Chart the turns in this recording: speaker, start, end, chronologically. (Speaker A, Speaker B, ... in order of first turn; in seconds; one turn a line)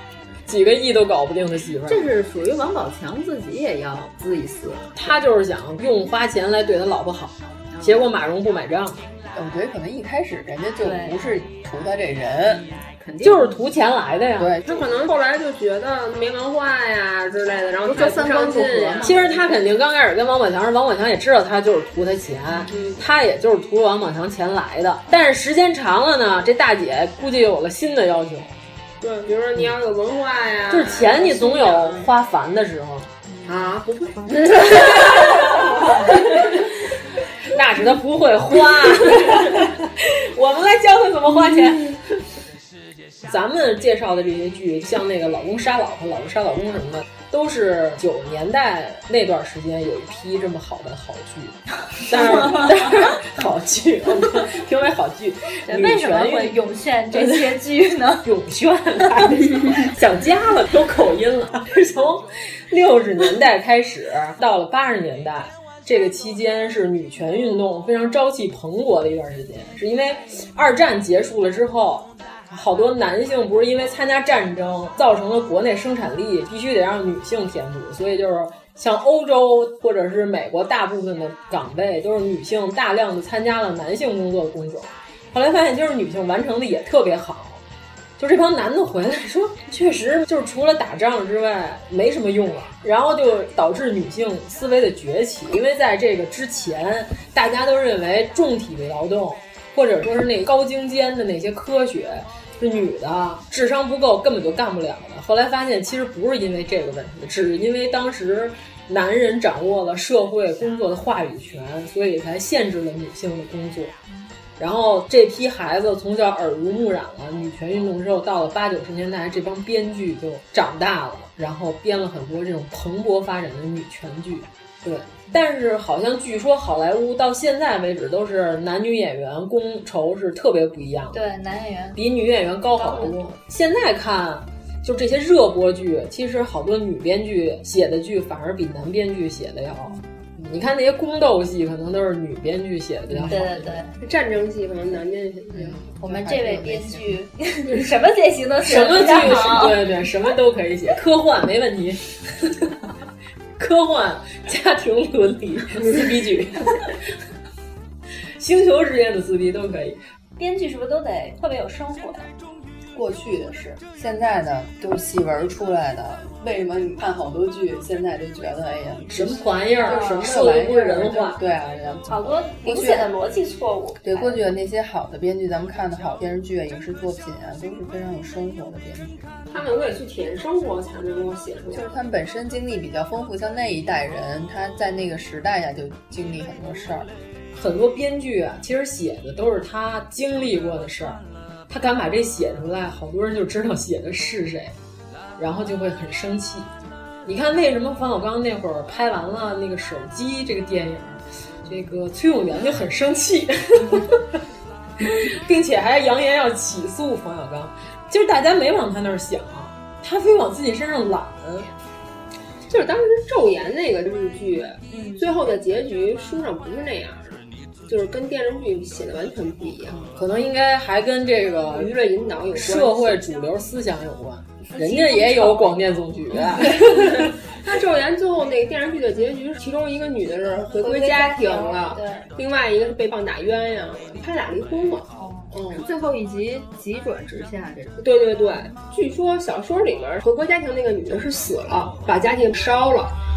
Speaker A: 0.5-2.1
Speaker B: 1.9-5.2
Speaker A: 4.9-9.0
Speaker B: 7.7-8.1
Speaker C: 9.3-12.7
Speaker D: 10.8-11.4
Speaker B: 12.5-13.6
Speaker A: 13.2-14.6
Speaker C: 14.4-14.8
Speaker E: 14.6-19.4
Speaker B: 17.8-19.1
Speaker A: 19.0-28.5
Speaker E: 22.7-23.0
Speaker E: 29.0-32.0
Speaker A: 30.7-33.1
Speaker E: 33.5-35.5
Speaker A: 34.7-36.2
Speaker A: 37.5-42.0
Speaker A: 43.3-56.6
Speaker D: 55.7-58.3
Speaker A: 58.2-87.6
Speaker A: 88.2-113.9
Speaker A: 114.6-131.2
Speaker D: 131.1-132.0
Speaker A: 131.9-143.7
Speaker D: 132.7-133.4
Speaker D: 143.2-143.9
Speaker E: 144.0-145.8
Speaker C: 145.5-147.2
Speaker D: 146.0-149.9
Speaker A: 148.6-152.0
Speaker A: 153.6-156.9
Speaker A: 158.4-160.0
Speaker D: 160.4-162.3
Speaker C: 162.9-173.1
Speaker A: 169.1-171.4
Speaker D: 169.8-170.3
Speaker D: 172.1-174.4
Speaker C: 174.0-179.2
Speaker E: 179.5-181.9
Speaker C: 181.7-187.1
Speaker A: 187.5-194.7
Speaker A: 195.4-196.7
Speaker A: 197.3-204.1
Speaker A: 205.0-211.7
Speaker E: 212.7-220.1
Speaker D: 214.9-215.3
Speaker A: 220.1-221.9
Speaker E: 221.7-223.2
Speaker A: 222.5-227.1
Speaker D: 224.7-225.9
Speaker E: 226.6-235.9
Speaker D: 230.7-232.3
Speaker D: 235.2-235.5
Speaker B: 235.7-238.0
Speaker E: 238.0-243.1